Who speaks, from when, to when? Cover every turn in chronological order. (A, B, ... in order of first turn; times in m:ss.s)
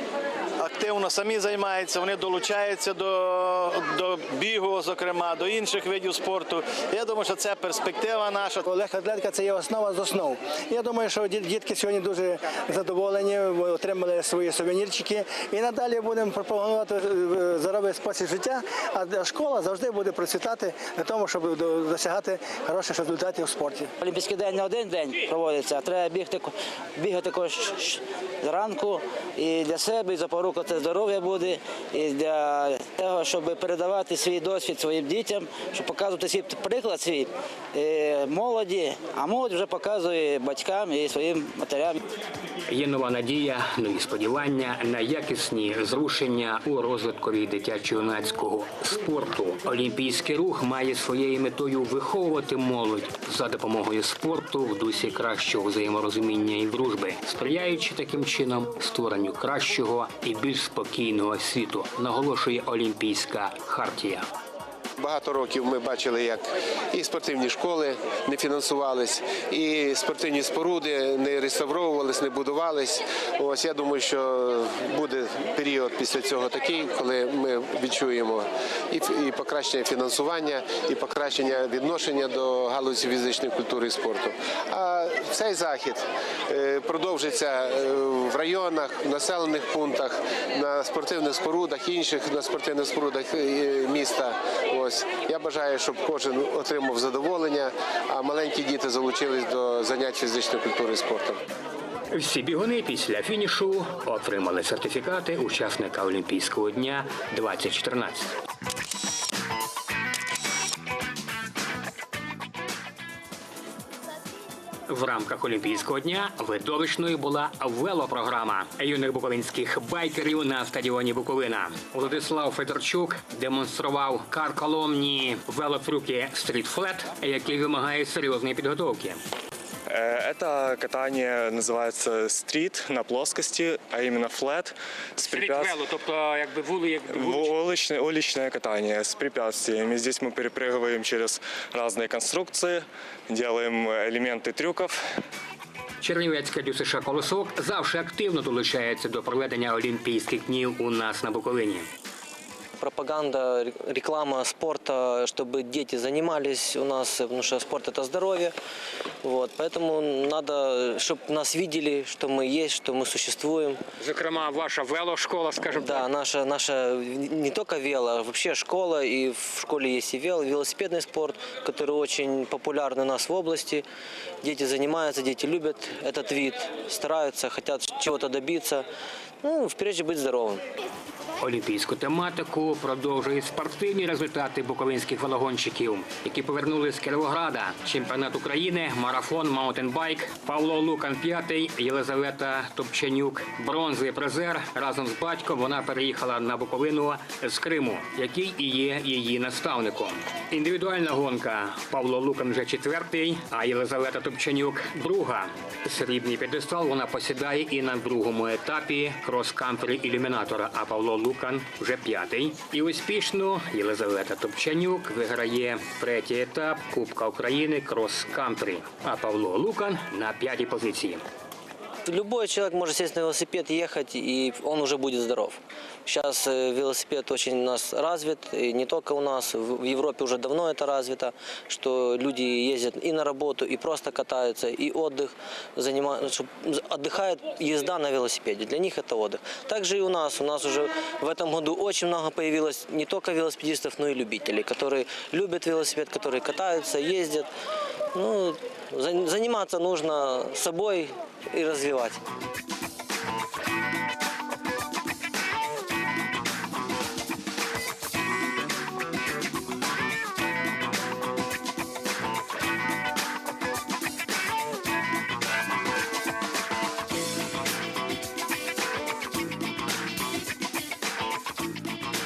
0:00.6-0:08.7 A
0:08.7-0:23.9 B
0:24.0-0:42.0 C
0:42.7-1:04.2 D
1:05.0-1:41.4 E
1:42.1-1:48.3 D
1:54.9-2:09.2 D
2:09.9-2:15.8 F
2:15.2-2:17.5 D
2:17.1-2:25.0 F
2:26.0-2:31.9 D
2:32.8-2:38.5 G
2:39.2-2:43.8 G
2:44.0-2:46.1 D
2:45.7-2:53.8 G
2:54.4-2:58.8 G
2:59.4-3:00.6 G
3:01.4-3:41.2 D
3:42.0-4:07.5 G
4:08.1-4:12.2 G